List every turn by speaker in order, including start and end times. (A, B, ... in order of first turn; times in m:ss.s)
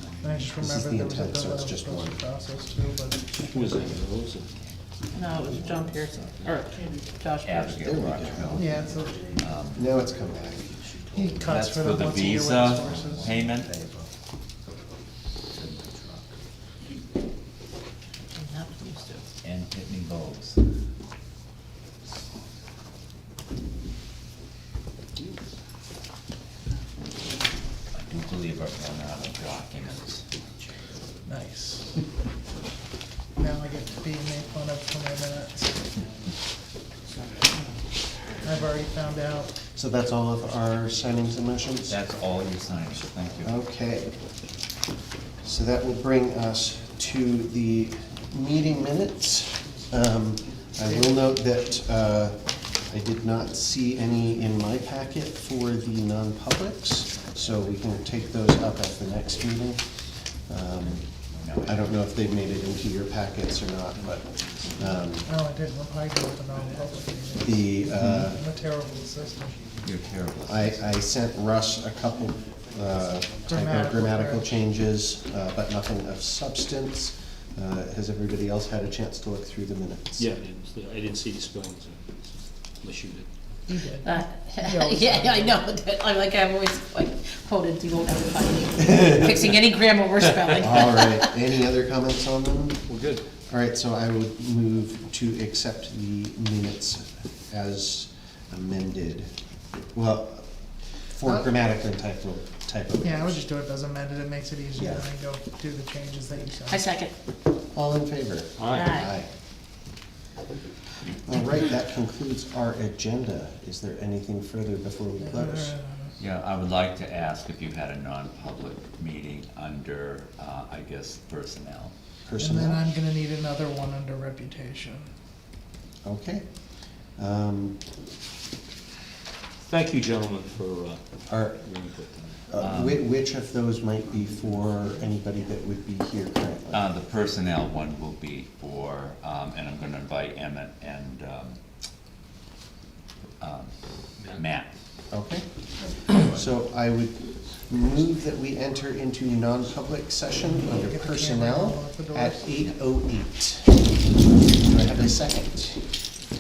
0:00.2-0:04.0 A
0:00.6-0:02.2 B
0:03.4-0:04.5 C
0:04.4-0:04.8 D
0:05.1-0:06.3 E
0:05.4-0:06.3 D
0:06.4-0:06.8 C
0:07.2-0:07.8 E
0:07.4-0:09.8 D
0:07.8-0:08.8 B
0:08.5-0:09.3 A
0:09.7-0:10.7 B
0:11.1-0:13.4 A
0:11.4-0:13.7 D
0:13.3-0:14.0 B
0:15.6-0:16.2 D
0:18.4-0:19.3 E
0:19.4-0:20.6 D
0:27.9-0:30.2 D
0:31.3-0:32.0 A
0:33.4-0:35.8 A
0:38.4-0:39.5 A
0:39.8-0:42.0 B
0:41.9-0:43.6 D
0:43.4-0:44.1 B
0:45.4-0:59.8 B
1:00.5-1:01.1 B
1:01.4-1:02.0 D
1:01.7-1:05.3 B
1:04.4-1:04.8 C
1:05.2-1:09.6 A
1:07.4-1:08.4 B
1:09.8-1:10.8 D
1:10.5-1:20.3 B
1:13.4-1:14.5 A
1:20.2-1:23.3 C
1:23.7-1:25.6 A
1:24.0-1:31.3 E
1:30.6-1:32.8 B
1:32.9-1:33.2 C
1:33.5-1:39.3 B
1:39.9-1:40.4 B
1:41.1-1:43.4 B
1:43.0-1:46.9 A
1:44.8-1:45.1 B
1:46.7-1:47.1 E
1:47.7-1:49.3 B
1:48.6-1:48.9 C
1:48.7-1:49.1 E
1:51.3-1:55.7 B
1:55.2-1:56.1 A
1:56.2-2:01.9 D
2:02.3-2:02.9 B
2:02.4-2:05.1 A
2:06.0-2:06.4 B
2:07.2-2:07.8 B
2:09.6-2:12.4 C
2:11.3-2:11.6 B
2:12.5-2:16.9 B
2:12.6-2:13.0 D
2:16.7-2:21.6 D
2:23.4-2:24.7 D
2:25.1-2:25.4 B
2:26.0-2:34.0 B
2:30.6-2:32.5 A
2:34.6-2:35.8 B